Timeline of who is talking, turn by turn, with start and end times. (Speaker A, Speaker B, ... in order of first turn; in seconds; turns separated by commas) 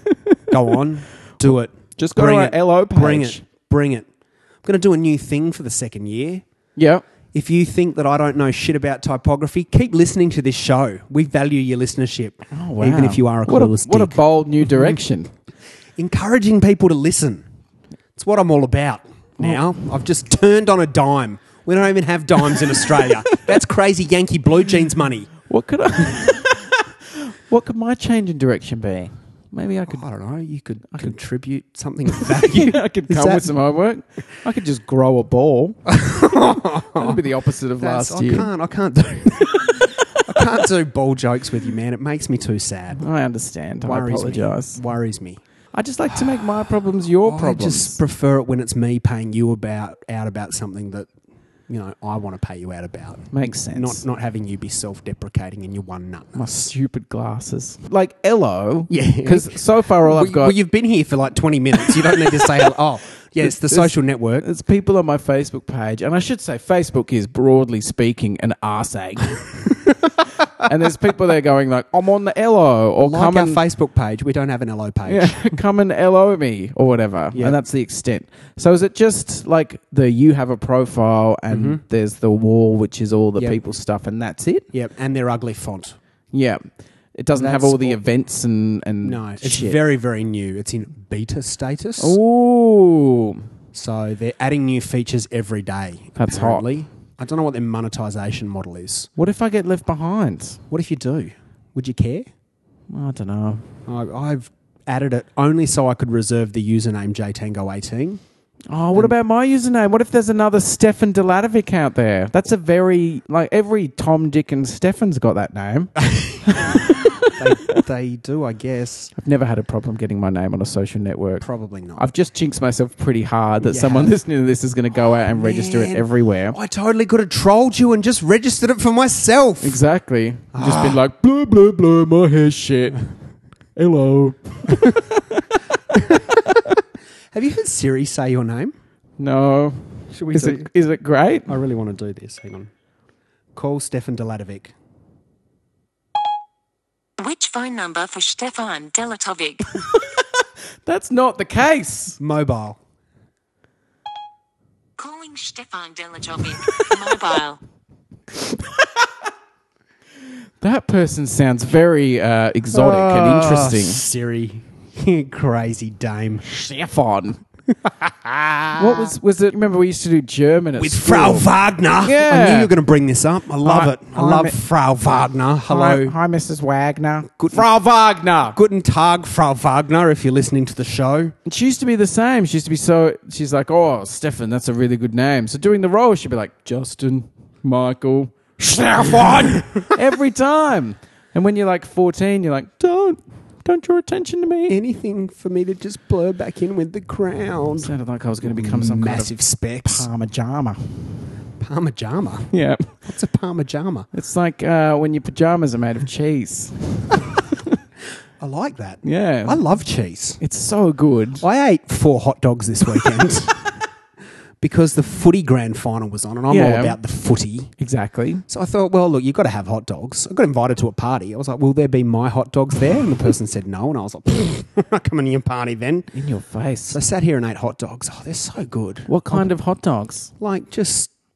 Speaker A: 0.5-4.1, Speaker B: 2.0-3.4, Speaker A: 4.6-6.4, Speaker B: 6.8-7.0, Speaker A: 7.3-15.0, Speaker B: 12.5-15.3, Speaker A: 16.0-17.4, Speaker A: 18.1-25.3, Speaker B: 25.4-30.1, Speaker A: 29.9-33.5, Speaker B: 32.1-35.8, Speaker A: 35.9-37.2, Speaker B: 36.9-38.5, Speaker A: 37.8-43.0, Speaker B: 39.6-40.2, Speaker B: 43.0-44.8, Speaker A: 43.8-45.4, Speaker B: 45.7-48.0, Speaker A: 47.2-51.1, Speaker A: 51.7-56.5, Speaker B: 53.3-54.0, Speaker B: 56.3-60.5, Speaker A: 58.9-64.5, Speaker B: 63.4-69.6, Speaker B: 70.6-73.6, Speaker A: 73.0-75.5, Speaker B: 75.0-84.7, Speaker A: 81.5-81.8, Speaker A: 84.7-86.0, Speaker B: 86.3-86.6, Speaker B: 87.1-89.8, Speaker A: 87.3-88.0, Speaker A: 89.0-92.2, Speaker B: 92.0-93.4, Speaker A: 93.7-99.1, Speaker B: 96.2-96.7, Speaker B: 99.2-100.6, Speaker A: 100.7-102.3, Speaker B: 102.9-103.6, Speaker A: 103.8-108.2, Speaker B: 108.7-117.8, Speaker A: 116.0-116.8, Speaker A: 117.3-119.1, Speaker B: 119.2-126.6, Speaker A: 121.4-122.0, Speaker A: 123.6-124.2, Speaker A: 125.1-129.8, Speaker B: 129.6-133.1, Speaker A: 130.5-131.0, Speaker B: 133.8-135.4, Speaker A: 135.9-136.4, Speaker A: 137.3-138.7, Speaker B: 139.2-141.6, Speaker A: 140.1-140.7, Speaker A: 141.5-142.7, Speaker A: 143.5-144.7, Speaker C: 147.2-149.7, Speaker B: 150.8-152.2, Speaker A: 152.2-152.8, Speaker C: 155.0-157.6, Speaker B: 160.6-164.0, Speaker A: 162.7-166.4, Speaker B: 166.4-167.4, Speaker A: 167.7-169.1, Speaker B: 168.7-171.5, Speaker A: 170.8-176.1, Speaker B: 172.0-172.7, Speaker B: 173.6-174.6, Speaker B: 175.7-178.6, Speaker A: 177.4-177.7, Speaker A: 178.5-181.3, Speaker B: 181.4-194.8, Speaker A: 189.1-189.9, Speaker A: 194.7-197.9, Speaker B: 197.8-199.3, Speaker A: 198.4-200.1, Speaker B: 199.8-201.1, Speaker A: 201.6-202.5, Speaker B: 202.5-203.0, Speaker A: 203.0-204.1, Speaker B: 204.1-207.8, Speaker A: 208.4-210.4, Speaker B: 209.0-209.6, Speaker B: 210.4-211.4, Speaker A: 211.4-213.7, Speaker A: 214.6-217.7, Speaker B: 216.5-217.0, Speaker B: 217.8-218.4, Speaker A: 218.5-226.1, Speaker B: 226.1-227.0, Speaker A: 226.9-229.5, Speaker B: 229.1-230.3, Speaker A: 230.4-231.1